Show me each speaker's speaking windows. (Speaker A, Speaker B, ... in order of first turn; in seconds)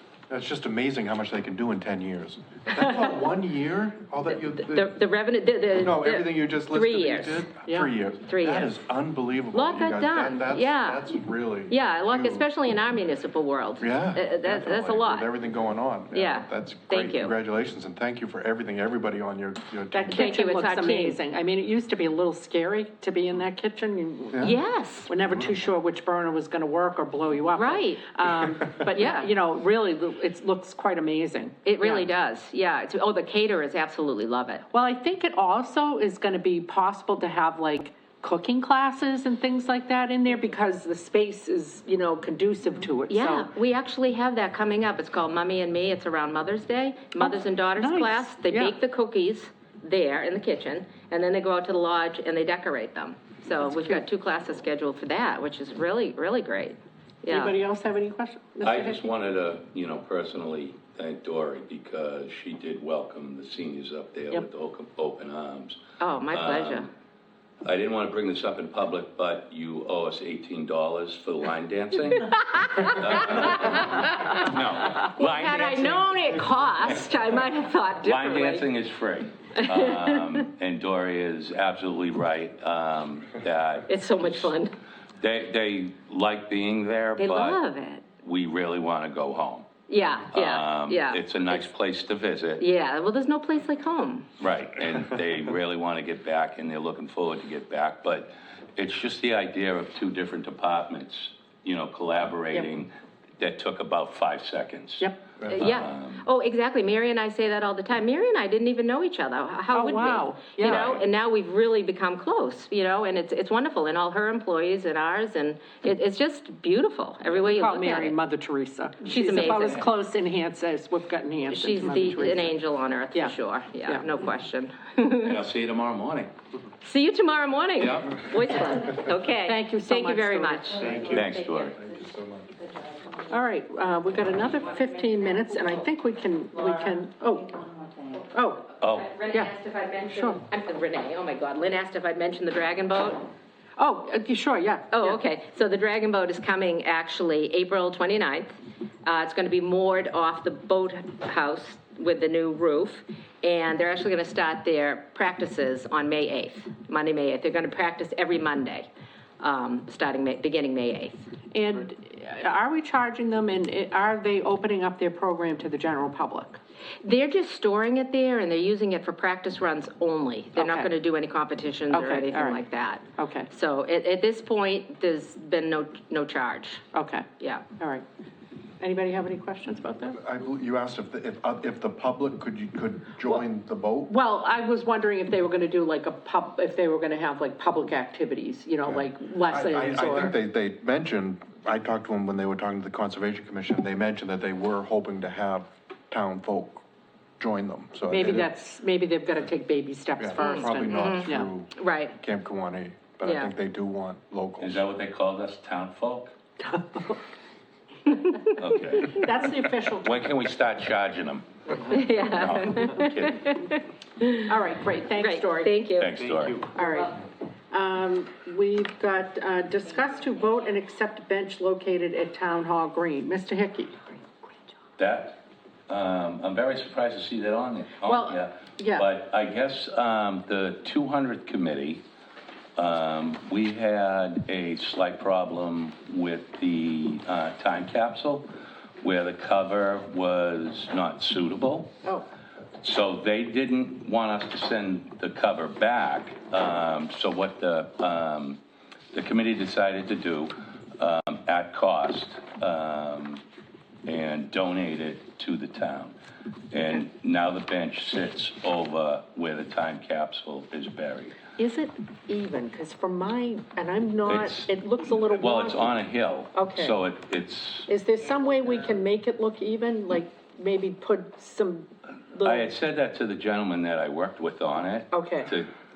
Speaker A: 0.3-5.0, 5.8-12.5, 13.8-20.3, 130.8-132.5, 180.2-184.1, 188.9-196.8, 197.4-198.5, 200.2-204.8
Speaker B: 4.6-7.5, 8.2-8.8, 9.5-11.1, 11.7-15.3, 16.1-17.3, 20.1-21.2, 24.4-25.1, 27.5-28.1, 28.9-29.3, 31.6-34.7, 43.1-57.6, 66.0-66.9, 72.4-78.7, 79.6-80.4, 83.9-84.7, 87.2-88.0, 89.9-91.7, 92.6-94.3, 105.5-118.2, 119.1-119.8, 121.5-125.4, 126.8-130.9, 138.8-143.3, 144.9-158.9, 159.4-161.2, 167.0-176.9, 177.4-177.7, 200.4-202.2, 203.2-203.5, 208.1-208.4, 211.8-214.5, 215.2-216.2
Speaker C: 19.9-32.1, 34.7-43.5, 47.2-48.8, 53.7-54.0, 57.3-59.0, 109.7-110.9, 117.4-122.6, 123.1-124.0, 129.4-130.8, 133.3-137.6, 138.3-138.7, 140.1-140.4, 143.8-145.2, 161.5-166.6, 170.6-170.9, 171.9-172.6, 173.2-173.5, 176.9-177.3, 177.8-178.0, 178.8-180.2, 184.1-190.3, 198.1-201.5, 206.6-207.2, 209.2-210.2, 214.5-215.8, 216.7-224.2, 228.0-229.1, 261.6-266.0, 266.5-267.0, 267.9-272.6, 275.1-275.5
Speaker D: 58.6-65.8, 66.3-66.9, 67.6-77.1, 78.0-84.5, 85.2-87.6, 88.2-89.7, 90.3-92.6, 94.4-106.2, 110.6-111.0, 125.2-126.3, 127.8-128.2, 131.1-131.8, 138.8-139.1, 204.6-206.3, 208.5-213.6, 216.0-216.7, 225.0-232.0, 232.8-238.5, 239.0-242.0, 242.8-248.6, 249.1-253.4, 254.1-256.1, 256.7-261.4, 264.2-267.9, 272.4-275.7